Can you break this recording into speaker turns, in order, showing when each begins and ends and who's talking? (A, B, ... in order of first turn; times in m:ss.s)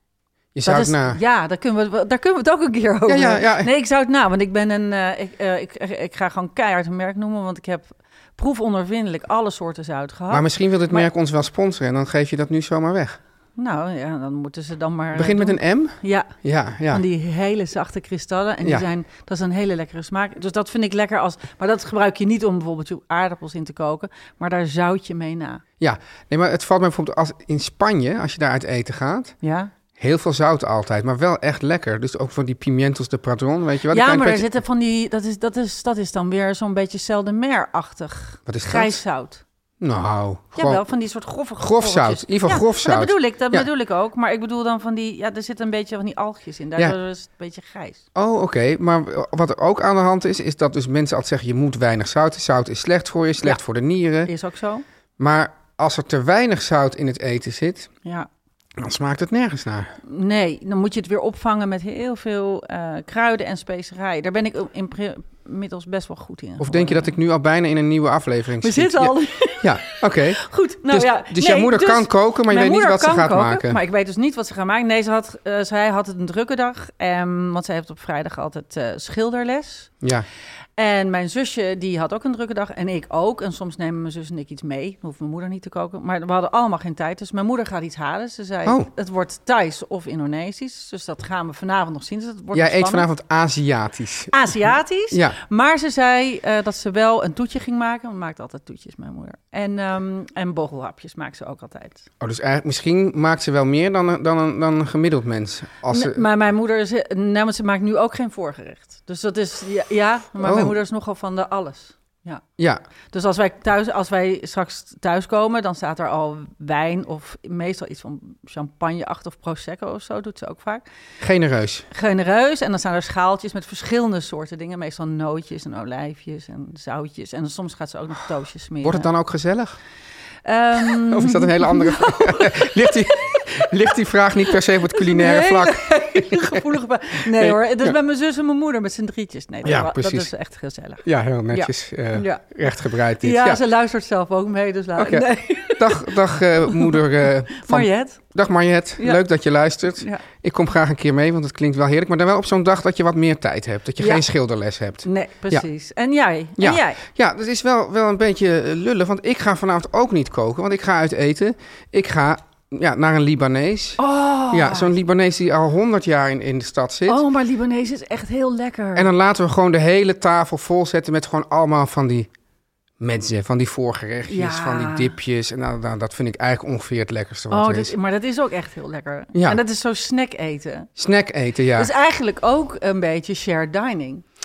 0:00.5-0:01.2 A
0:00.6-0:11.1 B
0:03.1-0:03.7 A
0:10.3-0:13.2 A
0:13.6-0:16.3 B
0:15.1-0:17.0 A
0:16.9-0:25.6 B
0:25.8-0:29.4 A
0:29.4-0:29.7 B
0:30.0-0:34.5 A
0:33.9-0:39.4 B
0:38.5-0:39.0 A
0:39.8-0:40.8 A
0:40.6-0:48.0 B
0:41.6-0:43.7 A
0:48.2-0:54.3 A
0:54.3-0:54.8 B
0:55.2-0:57.9 A
0:58.8-0:59.9 A
1:00.0-1:07.1 B
1:06.6-1:13.8 A
1:08.6-1:19.9 B
1:20.0-1:20.3 A
1:20.8-1:33.1 B
1:32.5-1:34.6 A
1:34.3-1:42.0 B
1:35.1-1:35.4 A
1:42.2-1:46.2 A
1:45.9-1:52.4 B
1:50.4-1:50.8 A
1:53.1-2:00.8 B
2:01.2-2:01.9 A
2:01.9-2:09.1 B
2:08.8-2:09.8 A
2:10.4-2:13.5 B
2:10.8-2:16.6 A
2:14.9-2:28.2 B
2:17.4-2:18.0 A
2:19.6-2:20.3 A
2:21.0-2:23.6 A
2:25.0-2:35.7 A
2:29.9-2:30.2 B
2:34.0-2:34.2 B
2:35.0-2:37.0 B
2:36.6-2:47.2 A
2:44.0-2:45.0 B
2:47.1-2:49.1 B
2:49.0-2:52.3 A
2:53.0-2:57.9 A
2:54.3-2:55.2 B
2:57.5-3:00.9 B
2:59.4-2:59.6 A
3:01.0-3:01.9 A
3:01.8-3:04.2 B